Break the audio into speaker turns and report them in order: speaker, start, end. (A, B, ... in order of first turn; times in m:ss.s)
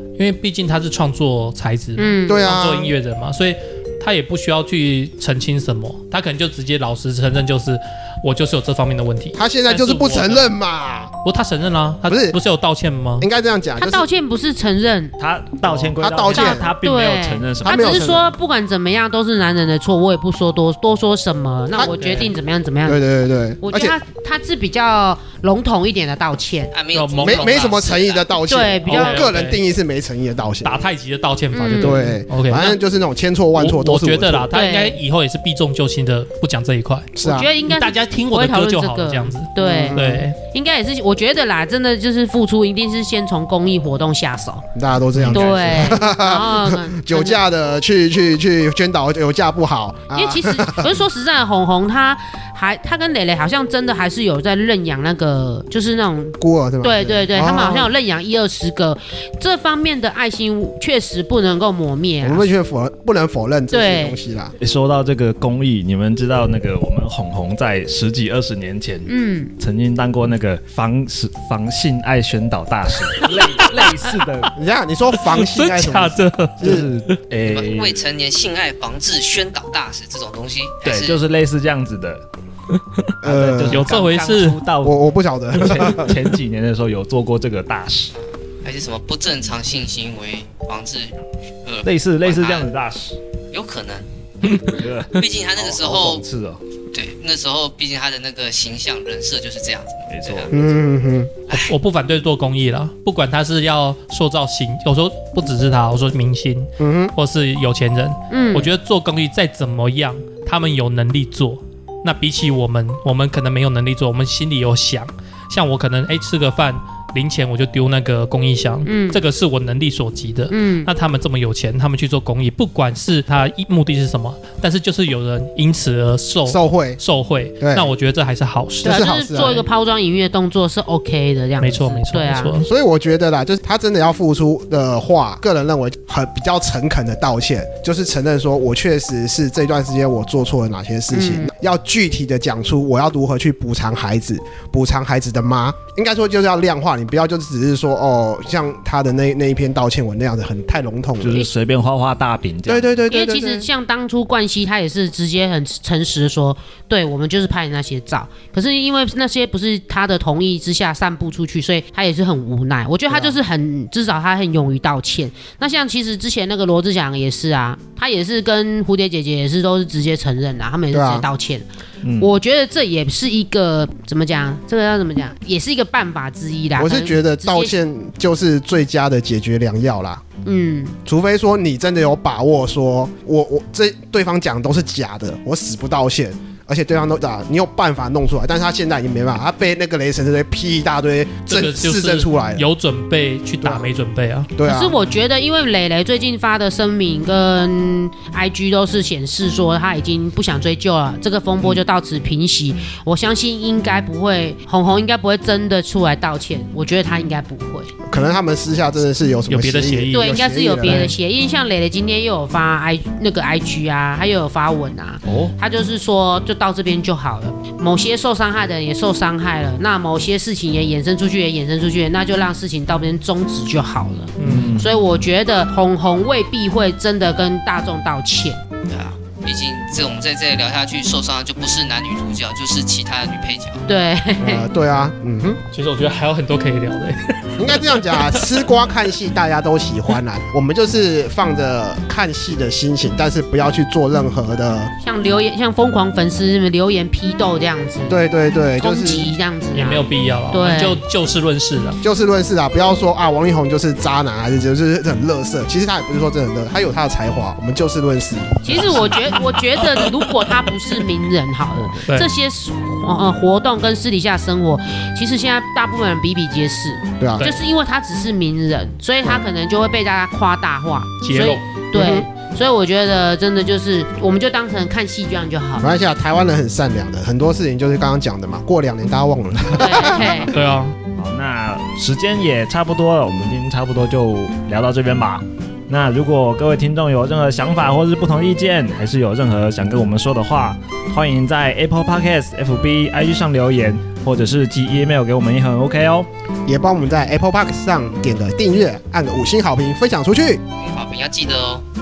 0:00.2-0:10.5 A
0:02.0-0:02.4 B
0:02.3-0:03.0 C
0:09.4-0:11.1 C
0:11.2-0:13.3 A
0:12.1-0:12.4 C
0:13.2-0:14.0 C
0:13.8-0:15.2 B
0:15.2-0:18.3 D
0:15.7-0:16.7 C
0:16.3-0:23.0 B
0:17.6-0:18.2 C
0:21.8-0:22.3 A
0:22.9-0:24.0 C
0:23.6-0:26.7 B
0:26.7-0:28.3 E
0:26.9-0:27.7 A
0:27.2-0:30.8 C
0:28.5-0:29.3 B
0:28.8-0:29.6 A
0:30.6-0:32.8 A
0:31.5-0:32.2 B
0:31.8-0:34.5 C
0:33.6-0:40.4 A
0:34.5-0:35.0 B
0:37.2-0:37.5 C
0:37.2-0:44.7 B
0:39.6-0:40.3 C
0:44.7-0:51.0 C
0:45.2-0:45.5 A
0:45.3-0:47.4 B
0:50.1-1:02.5 B
0:56.4-0:57.9 C
1:02.2-1:04.6 C
1:03.7-1:04.2 B
1:04.6-1:14.5 D
1:09.0-1:09.5 B
1:13.1-1:13.9 A
1:14.6-1:16.9 C
1:15.2-1:17.2 A
1:16.6-1:18.0 D
1:17.4-1:21.2 E
1:20.8-1:22.2 D
1:22.7-1:23.1 A
1:23.2-1:23.9 C
1:23.2-1:25.0 D
1:23.7-1:24.6 A
1:24.8-1:26.1 C
1:25.5-1:28.1 D
1:28.2-1:32.7 E
1:31.8-1:33.2 D
1:33.5-1:36.2 E
1:34.5-1:34.8 A
1:34.6-1:36.6 D
1:36.9-1:40.5 E
1:40.1-1:40.7 D
1:40.5-1:41.3 C
1:41.5-2:09.0 A
1:46.8-1:47.1 C
1:48.3-1:48.7 B
1:58.8-1:59.2 B
2:00.5-2:00.9 B
2:06.4-2:07.0 C
2:07.6-2:07.9 C
2:08.8-2:09.7 C
2:08.8-2:12.6 B
2:11.6-2:12.7 A
2:12.6-2:31.5 C
2:21.1-2:21.5 B
2:31.2-2:32.9 D
2:32.7-2:33.7 C
2:33.1-2:51.7 B
2:43.1-2:43.4 C
2:50.9-2:51.3 C
2:52.0-2:52.3 D
2:52.2-2:57.7 B
2:56.8-3:00.2 C
3:00.4-3:01.0 B
3:01.0-3:12.7 C
3:11.5-3:14.5 A
3:13.6-3:13.9 C
3:14.6-3:15.0 C
3:14.6-3:27.9 B
3:28.0-3:31.1 C
3:29.5-3:31.1 A
3:30.1-3:48.6 B
3:35.2-3:35.5 D
3:44.4-3:44.7 A
3:44.4-3:44.9 D
3:48.9-3:53.9 E
3:53.9-3:54.7 B
3:54.4-3:55.6 C
3:55.7-3:58.5 A
3:57.6-4:04.9 C
4:05.0-4:08.2 B
4:08.1-4:09.3 C
4:08.8-4:11.0 B
4:09.7-4:12.0 A
4:12.0-4:19.1 C
4:18.6-4:35.9 B
4:18.7-4:20.8 A
4:27.2-4:27.5 C
4:31.2-4:31.7 A
4:31.9-4:32.3 C
4:35.8-4:40.4 C
4:39.7-4:40.5 B
4:40.5-4:41.0 A
4:41.1-4:56.3 D
4:56.7-5:00.6 C
5:00.8-5:01.8 E